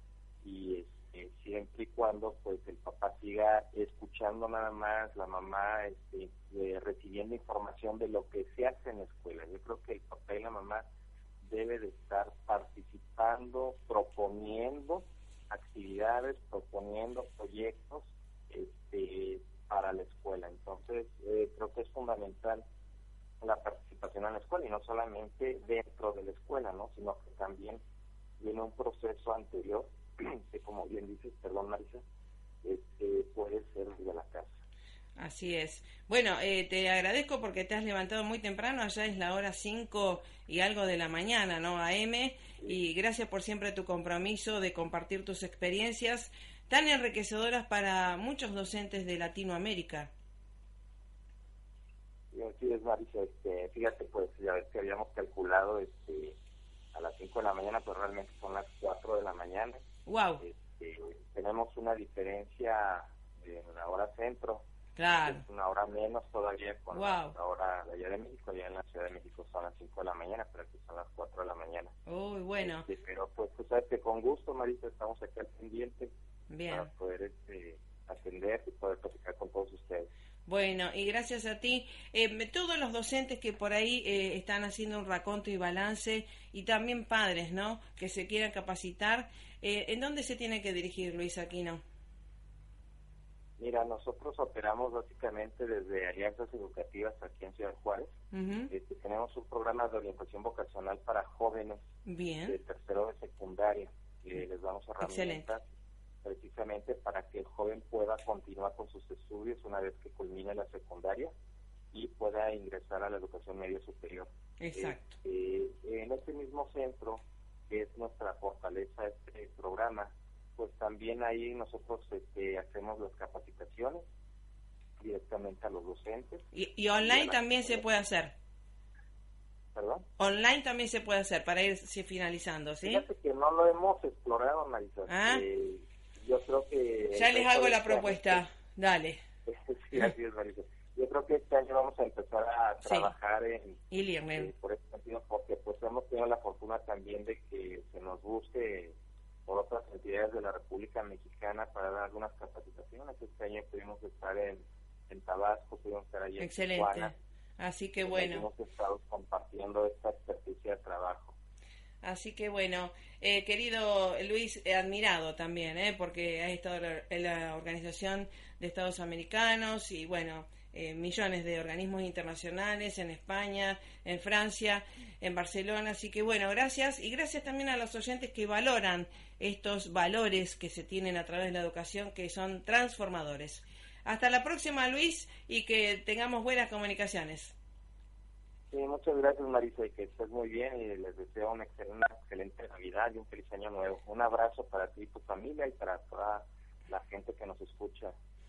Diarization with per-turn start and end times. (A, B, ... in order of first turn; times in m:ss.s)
0:00.4-0:10.8 A
0:11.4-0:22.6 A
0:23.4-0:27.8 A
0:28.4-0:32.0 A
0:32.6-0:34.6 A
0:35.2-0:50.1 B
0:52.3-0:56.4 A
0:56.9-0:59.8 A
1:00.1-1:00.4 B
1:00.4-1:11.9 A
1:05.0-1:05.4 B
1:06.9-1:07.4 B
1:12.1-1:12.9 B
1:12.6-1:16.1 A
1:16.5-1:16.9 B
1:16.7-1:20.1 A
1:20.5-1:31.8 B
1:33.6-1:38.1 A
1:38.3-1:38.7 B
1:38.7-1:41.8 A
1:42.0-1:42.6 B
1:42.5-1:45.6 A
1:45.0-1:45.5 B
1:46.2-1:51.3 A
1:51.9-2:04.0 A
1:54.6-1:55.2 B
2:05.0-2:06.5 A
2:06.5-2:08.3 B
2:07.0-2:07.9 A
2:09.7-2:10.1 A
2:10.2-2:13.0 B
2:12.8-2:18.4 A
2:15.1-2:15.4 B
2:17.1-2:19.2 B
2:19.5-2:23.8 A
2:22.8-2:23.1 B
2:23.9-2:24.5 B
2:24.4-2:29.0 A
2:29.5-2:37.2 A
2:36.4-2:38.5 B
2:38.0-2:41.4 A
2:42.0-3:07.6 B
3:08.7-3:18.1 A